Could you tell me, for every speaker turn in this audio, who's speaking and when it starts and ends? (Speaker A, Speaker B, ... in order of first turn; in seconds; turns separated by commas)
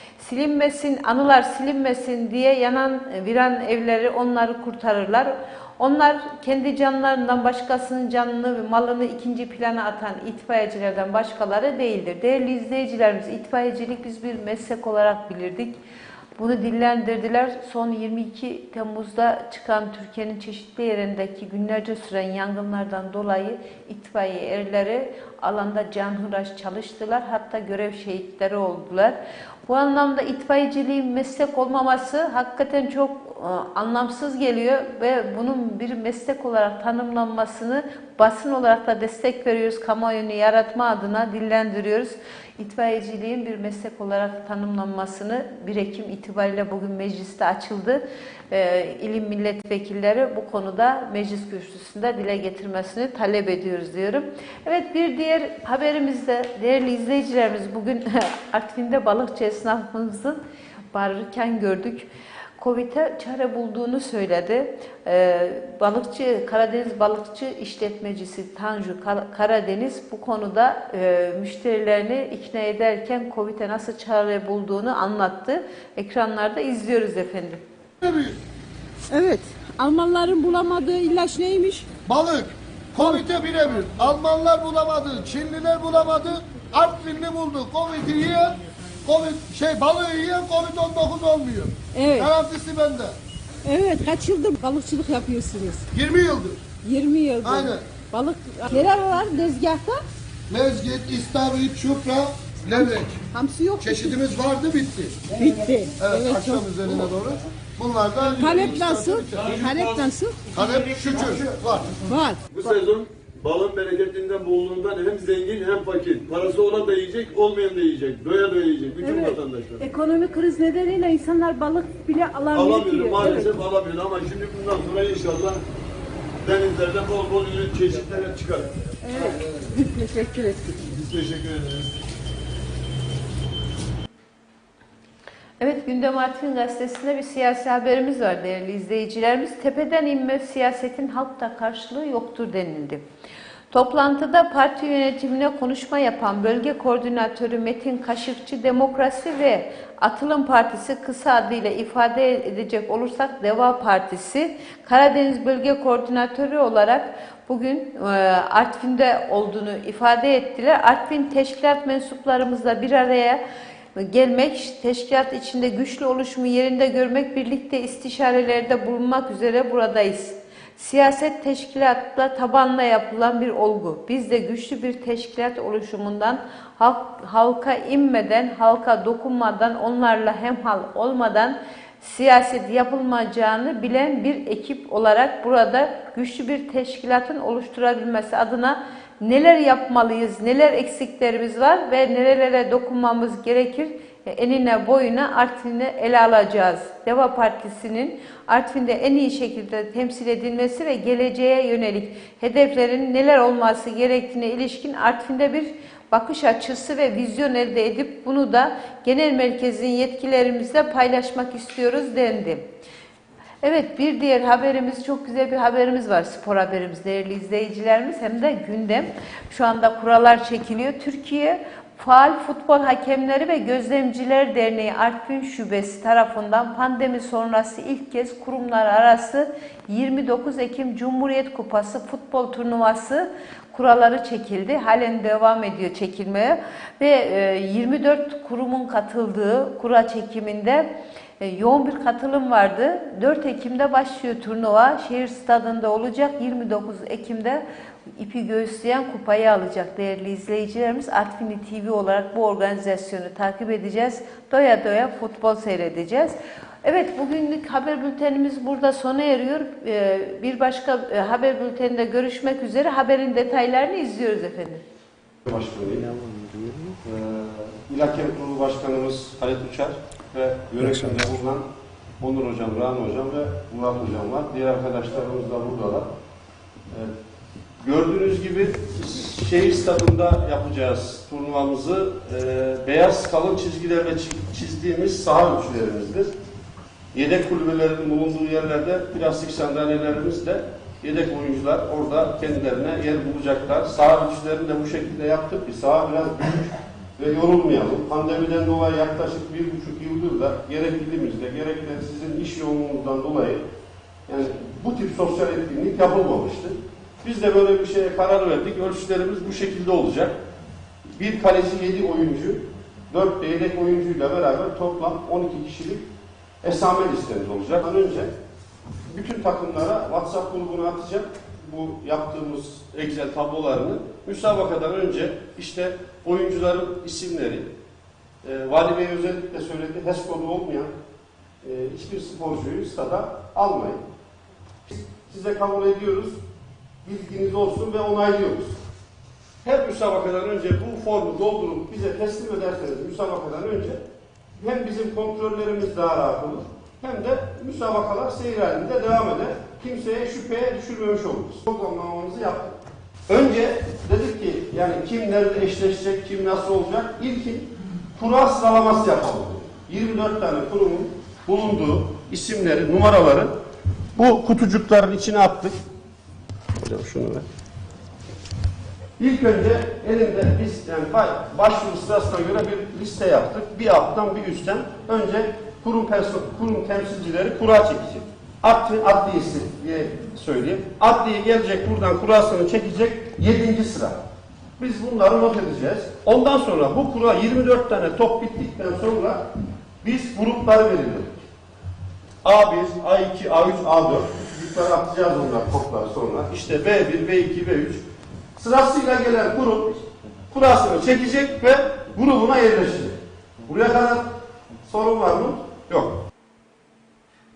Speaker A: 0.2-15.7, Speaker A: 16.4-60.4, Speaker A: 60.9-77.6, Speaker B: 78.0-78.4, Speaker C: 79.1-81.9, Speaker B: 82.0-93.2, Speaker C: 83.0-83.2, Speaker C: 91.9-92.3, Speaker C: 93.6-95.8, Speaker B: 95.9-96.6, Speaker C: 96.8-100.0, Speaker B: 97.4-97.9, Speaker B: 100.5-103.2, Speaker C: 102.7-104.2, Speaker B: 103.8-105.3, Speaker C: 105.3-107.1, Speaker B: 106.0-109.6, Speaker D: 108.2-110.8, Speaker C: 108.4-110.4, Speaker B: 110.5-112.0, Speaker C: 112.0-112.7, Speaker D: 112.5-119.8, Speaker C: 119.0-123.5, Speaker D: 122.5-125.6, Speaker D: 126.4-129.3, Speaker C: 129.0-130.8, Speaker D: 130.8-131.9, Speaker A: 135.6-143.0, Speaker A: 143.7-163.4, Speaker A: 163.9-212.7, Speaker A: 213.6-247.6, Speaker A: 248.1-264.8, Speaker E: 265.5-271.7, Speaker E: 272.2-276.1, Speaker E: 277.8-286.3, Speaker E: 287.1-303.6, Speaker E: 304.3-310.4, Speaker E: 311.1-316.1, Speaker E: 316.6-318.3, Speaker E: 319.1-327.7, Speaker E: 328.4-330.9, Speaker E: 331.6-334.0, Speaker E: 334.9-336.4, Speaker E: 337.0-338.8, Speaker E: 339.6-344.0, Speaker E: 344.6-352.8, Speaker E: 353.3-363.5, Speaker E: 364.1-365.8, Speaker E: 366.7-367.4, Speaker E: 369.2-384.2, Speaker E: 384.8-389.5, Speaker E: 390.0-391.4, Speaker E: 392.4-398.0, Speaker E: 398.6-406.2